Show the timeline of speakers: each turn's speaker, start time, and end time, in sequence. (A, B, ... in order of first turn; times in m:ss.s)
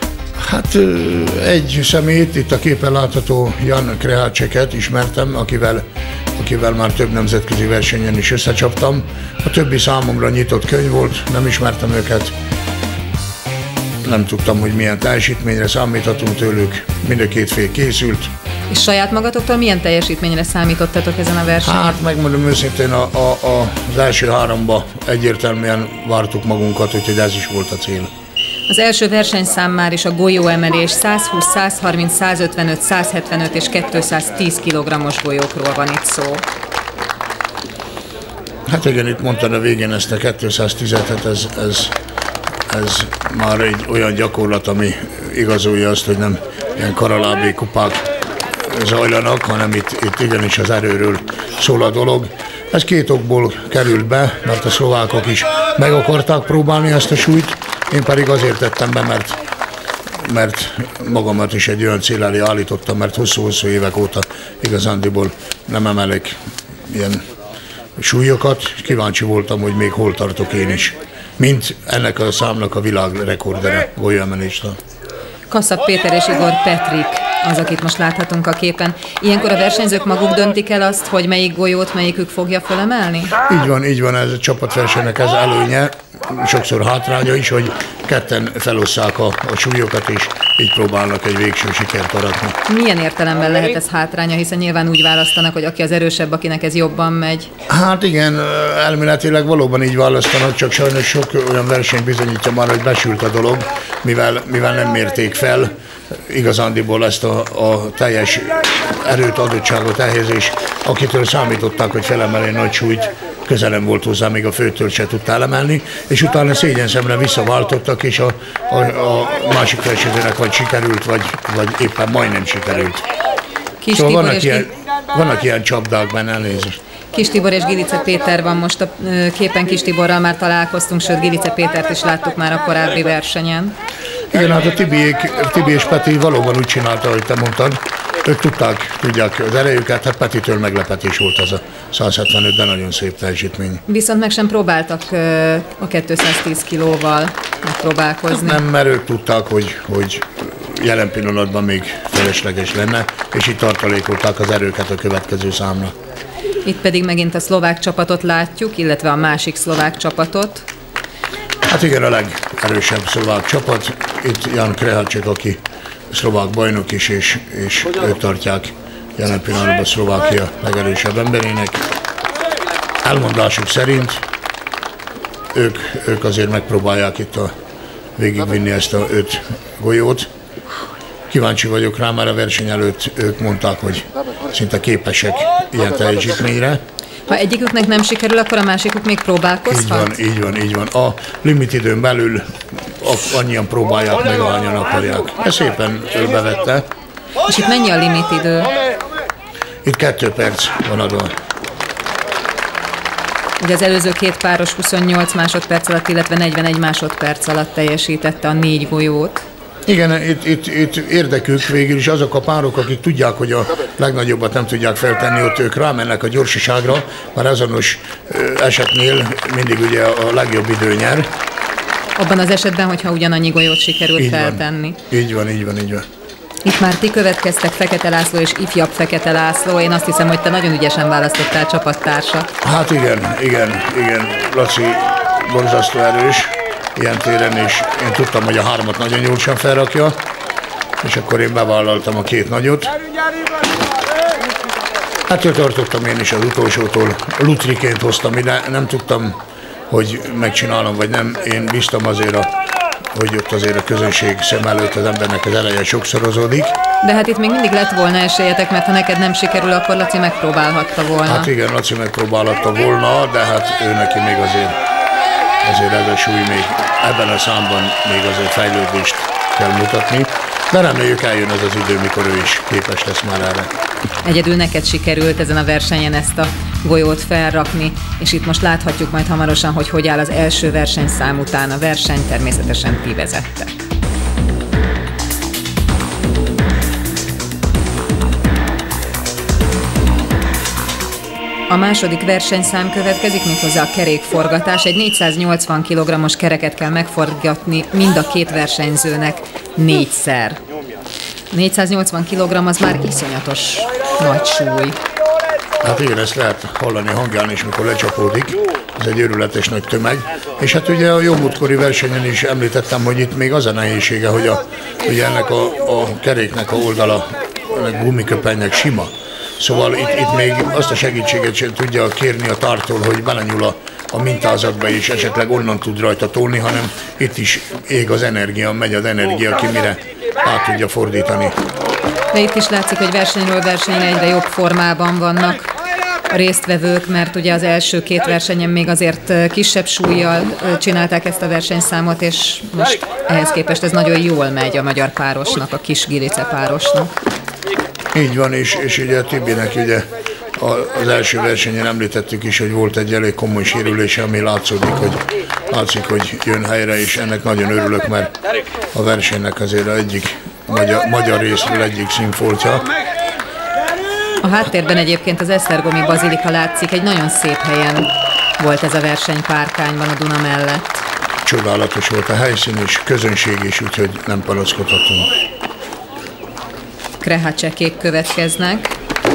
0:00.4-0:05.8 A
0:06.4-0:12.3 A
0:14.0-0:18.3 A
0:18.7-0:22.0 B
0:21.6-0:28.1 A
0:28.7-0:36.5 B
0:38.7-0:41.9 A
0:42.7-0:48.1 A
0:48.6-0:59.4 A
1:00.2-1:07.2 A
1:08.0-1:14.8 A
1:15.5-1:23.4 B
1:23.4-1:32.6 A
1:32.7-1:37.5 B
1:37.7-2:03.1 A
2:03.8-2:04.7 B
2:03.9-2:06.8 A
2:07.1-2:13.8 B
2:14.3-2:23.8 A
2:23.9-2:28.6 B
2:28.3-2:35.9 A
2:36.6-2:40.7 B
2:41.7-2:45.6 A
2:46.1-2:51.8 A
2:53.0-2:54.2 A
2:55.5-2:57.5 A
2:58.2-3:00.3 A
3:01.3-3:06.8 A
3:07.3-3:10.2 B
3:09.7-3:16.8 A
3:17.4-3:18.7 B
3:19.8-3:21.3 A
3:23.6-3:29.4 B
3:29.9-3:41.3 A
3:42.2-3:45.0 B
3:44.2-3:46.0 A
3:46.6-3:52.5 B
3:52.6-4:00.2 A
4:01.0-4:02.9 A
4:05.3-4:09.4 A
4:09.9-4:12.5 A
4:13.1-4:16.8 A
4:17.0-4:21.5 B
4:21.3-4:24.8 A
4:25.6-4:33.7 A
4:34.2-4:43.7 B
4:51.7-5:00.6 B
5:01.5-5:05.0 B
5:05.8-5:31.6 A
5:32.3-5:35.7 B
5:36.3-5:47.1 B
5:48.1-5:58.3 A
5:58.9-6:02.9 A
6:04.4-6:11.0 B
6:11.4-6:15.3 A
6:17.2-6:19.0 B